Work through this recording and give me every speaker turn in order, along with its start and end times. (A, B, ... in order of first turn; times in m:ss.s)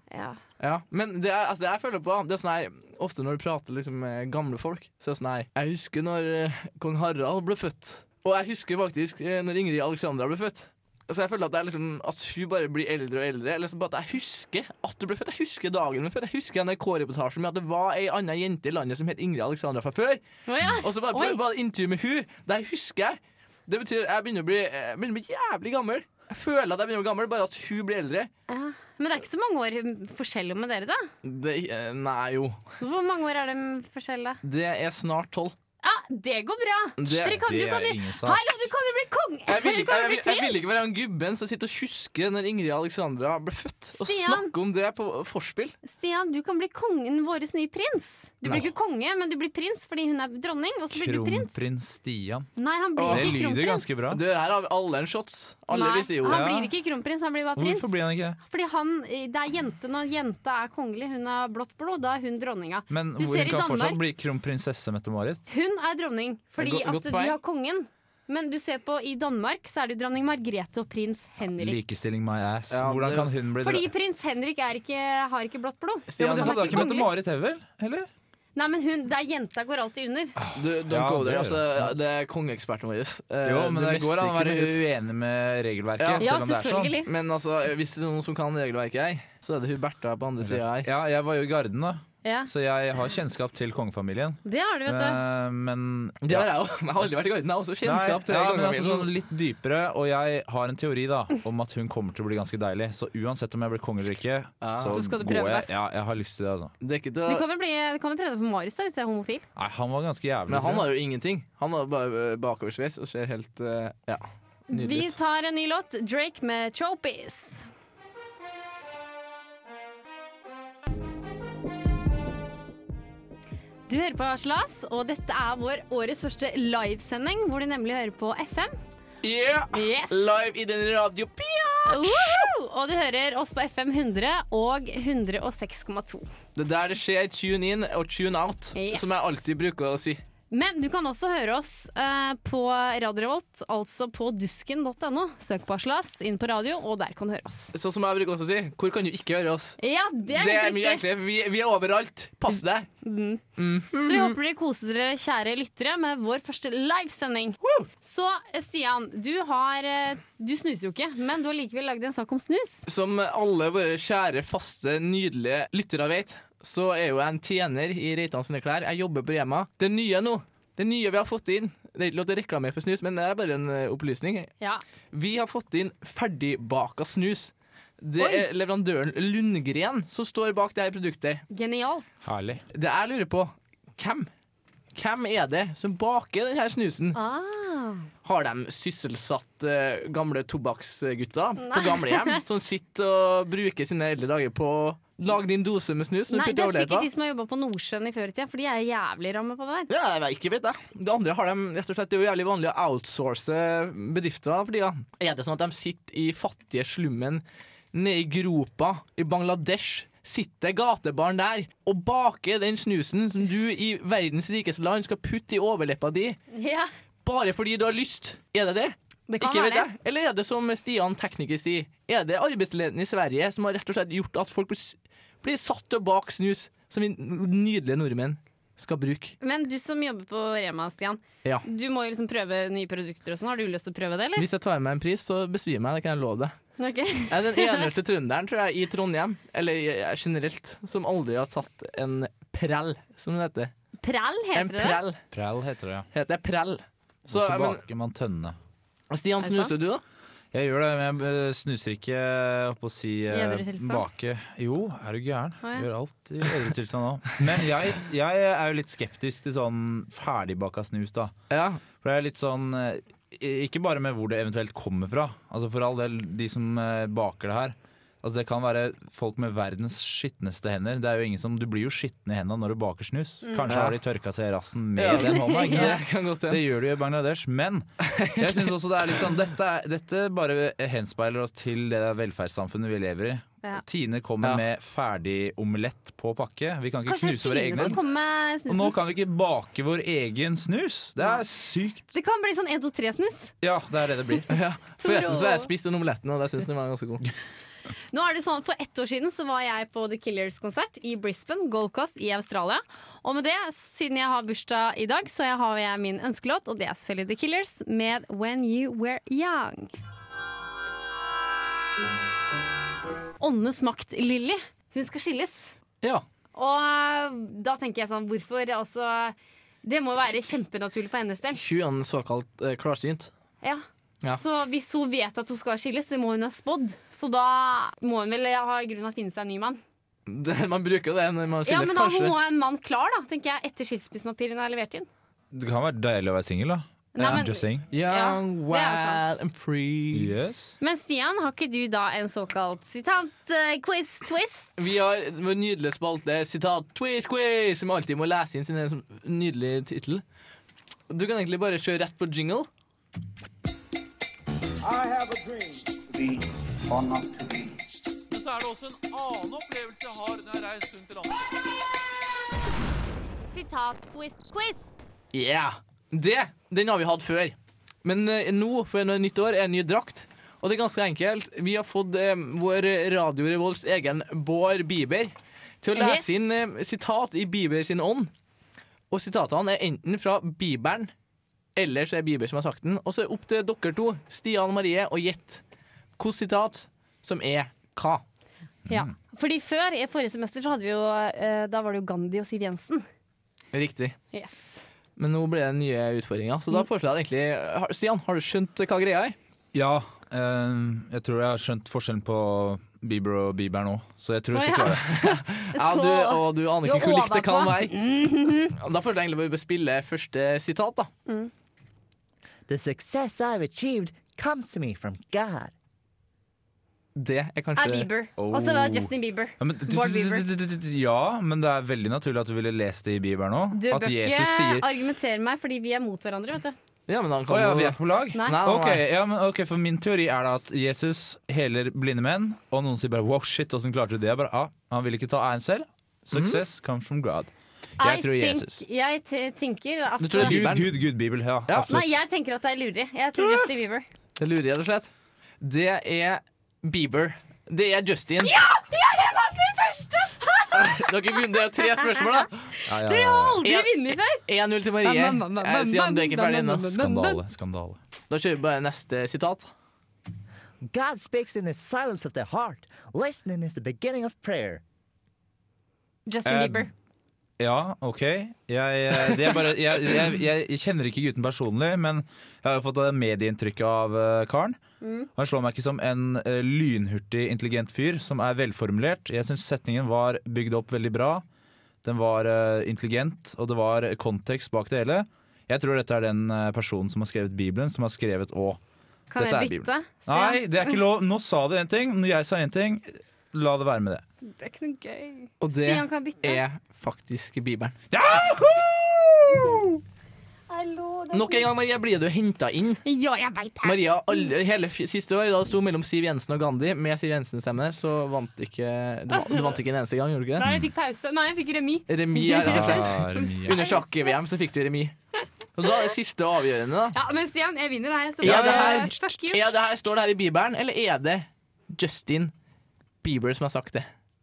0:00.1-0:00.4 A
0:00.6-0:20.2 B
0:20.5-0:21.4 A
0:20.8-0:28.3 B
0:28.5-0:31.1 A
0:31.2-0:32.6 B
0:32.8-0:34.4 A
0:34.4-0:35.6 B
0:35.8-0:40.6 A
0:37.0-0:37.4 B
0:37.2-0:38.4 C
0:39.5-0:45.8 B
0:44.0-0:44.5 A
0:45.8-0:51.5 A
0:50.9-0:52.5 C
0:52.6-0:53.9 A
0:53.0-0:53.4 B
0:53.1-0:54.2 C
0:54.1-0:56.5 B
0:55.7-0:57.9 A
0:56.2-0:56.7 C
0:57.6-0:58.4 C
0:58.4-1:04.0 A
1:02.9-1:05.4 C
1:05.5-1:11.8 A
1:06.6-1:07.4 B
1:11.6-1:13.9 C
1:12.7-1:13.3 B
1:13.6-1:17.1 A
1:16.1-1:17.0 B
1:16.2-1:18.1 C
1:18.6-1:20.4 A
1:20.4-1:21.9 C
1:20.6-1:24.8 B
1:23.4-1:27.0 C
1:26.0-1:26.3 B
1:26.2-1:27.1 A
1:27.0-1:30.9 B
1:30.4-1:36.5 C
1:32.2-1:32.5 A
1:34.4-1:35.2 A
1:36.2-1:39.1 B
1:37.8-1:46.7 C
1:44.6-1:45.0 B
1:44.9-1:45.7 A
1:46.8-1:47.4 B
1:47.3-1:49.5 A
1:49.6-1:50.9 C
1:50.5-1:55.2 B
1:54.7-1:57.7 A
2:03.9-2:08.8 A
2:09.2-2:12.5 B
2:09.7-2:10.3 A
2:11.9-2:16.3 A
2:16.6-2:20.2 B
2:18.8-2:19.3 A
2:20.5-2:27.7 A
2:27.7-2:32.9 B
2:29.8-2:31.0 A
2:33.0-2:33.4 A
2:33.6-2:34.4 B
2:34.0-2:42.9 A
2:37.6-2:37.9 B
2:42.9-2:54.5 B
2:55.1-3:01.4 B
2:58.2-2:58.4 A
3:01.5-3:02.1 A
3:02.2-3:02.6 C
3:02.7-3:04.3 B
3:05.0-3:07.2 B
3:07.2-3:08.1 A
3:08.2-3:17.1 B
3:11.6-3:12.4 A
3:16.3-3:19.9 A
3:19.9-3:36.4 B
3:36.5-3:36.9 A
3:37.2-3:49.4 B
3:39.3-3:39.9 A
3:49.4-3:54.5 A
3:54.4-3:56.6 B
3:56.8-3:57.9 A
3:57.3-4:03.7 B
4:04.0-4:05.0 A
4:04.6-4:05.2 B
4:05.3-4:06.1 C
4:06.1-4:07.8 B
4:07.3-4:08.6 C
4:09.1-4:10.0 B
4:09.4-4:09.7 A
4:10.5-4:21.3 C
4:13.3-4:14.1 A
4:15.6-4:15.9 A
4:21.5-4:21.8 B
4:22.0-4:48.0 C
4:33.4-4:33.7 A
4:33.7-4:34.0 B
4:35.0-4:36.6 B
4:35.2-4:36.0 A
4:38.0-4:38.7 B
4:47.1-4:49.0 A
4:48.7-4:52.0 C
4:52.1-4:53.5 A
4:53.6-4:54.5 C
4:54.5-4:57.3 B
4:55.0-4:55.7 A
4:58.1-5:09.9 A
5:13.4-5:15.7 A
5:16.6-5:21.6 A
5:21.6-5:23.3 B
5:23.6-5:29.8 A
5:30.3-5:32.4 B
5:31.7-5:35.1 A
5:35.5-5:37.8 C
5:37.2-5:39.2 A
5:37.2-5:40.4 B
5:40.1-5:40.8 C
5:40.8-5:44.8 A
5:44.8-5:50.2 B
5:51.1-5:52.7 B
5:54.8-5:57.8 D
5:58.3-6:01.4 D
6:03.5-6:04.9 A
6:05.3-6:18.3 B
6:15.9-6:16.5 A
6:19.1-6:21.1 B
6:21.8-6:25.6 B
6:26.2-6:28.2 B
6:28.9-6:29.1 C
6:28.9-6:33.1 A
6:33.7-6:34.2 B
6:34.3-6:34.8 A
6:35.2-6:39.4 B
6:39.7-6:45.2 C
6:44.5-6:48.7 A
6:45.0-6:48.0 B
6:48.7-6:51.1 B
6:52.7-6:55.7 E
6:57.2-6:58.1 B
6:57.8-7:00.4 A
6:58.4-7:04.9 C
7:03.8-7:06.8 A
7:07.1-7:09.0 B
7:07.5-7:18.8 C
7:16.3-7:16.6 B
7:18.0-7:20.7 A
7:20.2-7:21.0 B
7:20.4-7:22.1 C
7:21.9-7:24.1 A
7:24.4-7:25.1 B
7:25.6-7:28.5 B
7:28.4-7:32.5 A
7:30.7-7:32.6 B
7:32.9-7:33.6 C
7:33.0-7:34.4 A
7:33.6-7:37.0 B
7:35.0-7:37.4 A
7:36.9-7:38.0 C
7:38.3-7:39.7 B
7:40.9-7:44.8 E
7:46.3-7:46.9 A
7:46.4-7:46.9 C
7:47.6-7:54.8 C
7:55.0-7:55.3 A
7:55.4-8:01.4 C
8:02.0-8:08.8 C
8:09.3-8:11.0 A
8:09.4-8:14.2 C
8:14.5-8:16.6 A
8:15.6-8:18.0 B
8:18.1-8:19.9 C
8:20.7-8:21.7 A
8:21.3-8:23.0 B
8:23.0-8:24.5 A
8:23.8-8:30.6 B
8:29.3-8:29.8 A
8:30.6-8:34.3 A
8:30.6-8:30.9 C
8:32.1-8:35.2 B
8:32.6-8:33.8 C
8:35.8-8:37.2 B
8:37.1-8:39.7 A
8:38.4-8:42.5 B
8:38.4-8:39.1 C
8:43.2-8:44.1 B